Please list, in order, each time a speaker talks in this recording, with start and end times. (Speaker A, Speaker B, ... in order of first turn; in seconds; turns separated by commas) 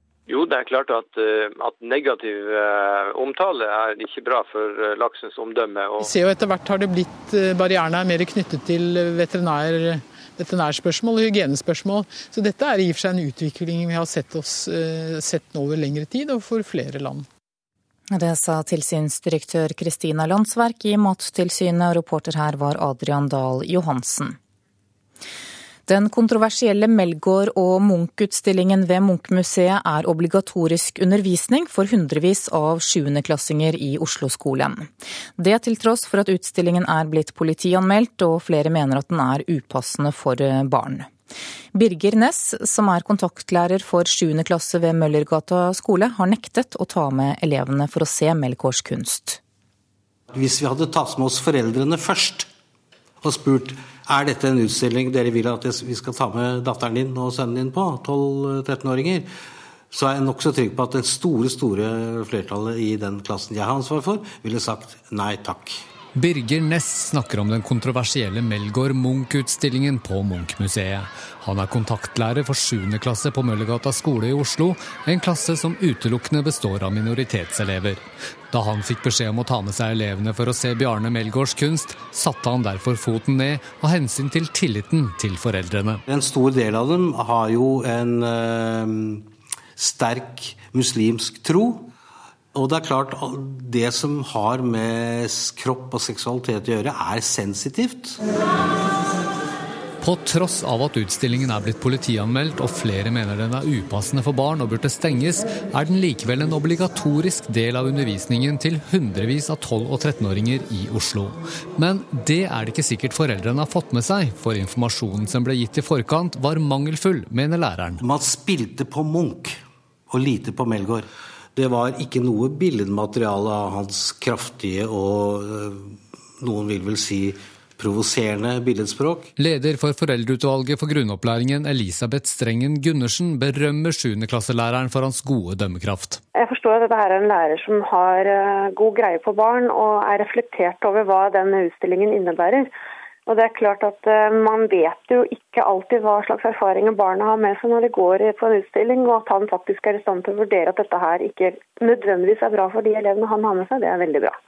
Speaker A: 0.3-6.1, Speaker B: 6.0-17.2, Speaker C: 18.1-24.4, Speaker C: 25.9-41.1, Speaker C: 41.7-49.4, Speaker D: 50.3-52.5, Speaker D: 53.2-59.3, Speaker D: 59.9-65.8, Speaker E: 66.1-86.0, Speaker D: 86.1-91.9, Speaker D: 92.5-98.2, Speaker E: 100.0-118.0, Speaker D: 118.0-119.6, Speaker D: 120.1-129.3, Speaker E: 129.4-136.2, Speaker F: 136.4-142.7, Speaker F: 143.3-154.3